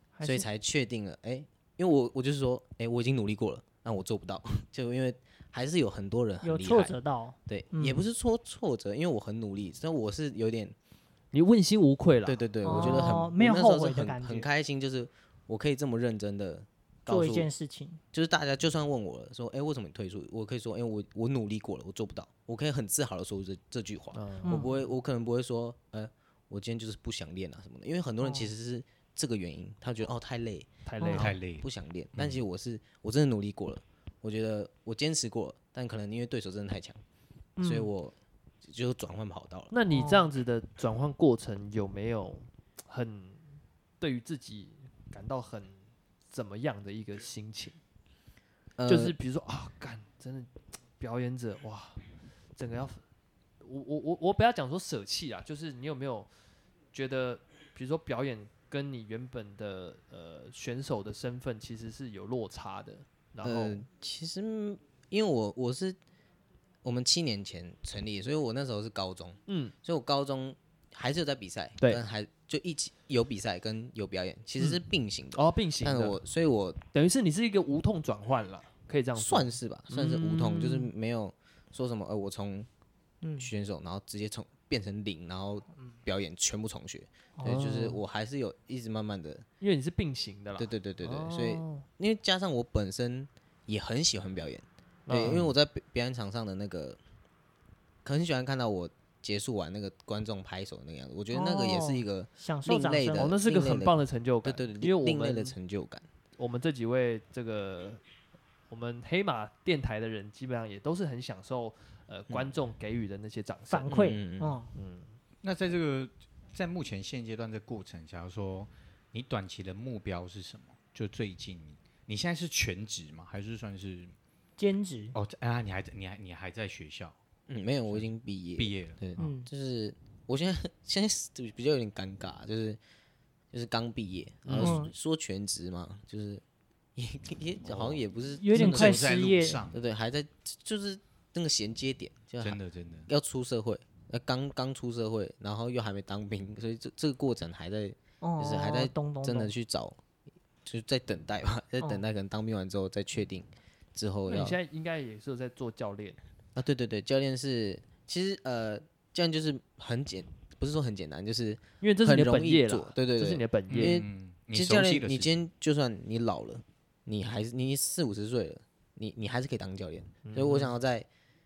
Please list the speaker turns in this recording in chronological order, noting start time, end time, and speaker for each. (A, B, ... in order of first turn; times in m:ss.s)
0:00.2-0:00.5 A
0:00.2-0:10.8 B
0:06.4-0:08.0 A
0:11.3-0:13.2 C
0:12.2-0:17.5 B
0:12.6-0:14.5 A
0:17.1-0:18.0 A
0:18.1-0:30.7 B
0:24.1-0:24.6 C
0:24.4-0:24.8 A
0:28.2-0:28.5 A
0:30.9-0:31.4 C
0:31.0-0:31.3 A
0:31.1-0:32.4 D
0:31.2-0:37.0 B
0:37.6-0:37.9 A
0:37.6-0:39.7 B
0:39.7-0:47.8 C
0:39.9-0:40.3 A
0:48.8-0:49.2 B
0:48.9-0:52.0 C
0:52.6-0:53.0 C
0:53.6-0:56.3 C
0:56.9-1:03.8 C
1:03.4-1:06.0 B
1:06.8-1:16.8 B
1:09.5-1:09.7 C
1:14.6-1:16.2 C
1:16.9-1:20.8 C
1:19.2-1:22.7 B
1:23.2-1:23.5 A
1:23.4-1:29.4 B
1:27.4-1:28.0 C
1:29.6-1:31.8 C
1:30.6-1:37.0 B
1:35.1-1:35.5 C
1:38.0-1:46.1 B
1:41.3-1:43.2 A
1:43.1-1:45.6 C
1:46.4-1:48.0 C
1:48.7-1:54.0 C
1:53.7-1:54.7 A
1:53.9-1:54.6 B
1:54.8-1:55.2 C
1:55.4-2:04.1 D
2:04.6-2:05.2 A
2:05.2-2:07.2 D
2:07.5-2:12.8 B
2:07.9-2:09.0 D
2:09.2-2:09.5 A
2:13.5-2:16.4 B
2:14.5-2:14.8 D
2:14.6-2:14.9 A
2:17.0-2:30.0 B
2:17.6-2:18.0 D
2:18.4-2:19.6 A
2:18.5-2:19.8 D
2:22.4-2:23.1 D
2:28.2-2:29.5 A
2:30.6-2:34.6 B
2:34.3-2:36.2 C
2:36.6-2:51.1 B
2:41.8-2:44.0 C
2:43.7-2:45.4 D
2:50.2-2:50.7 C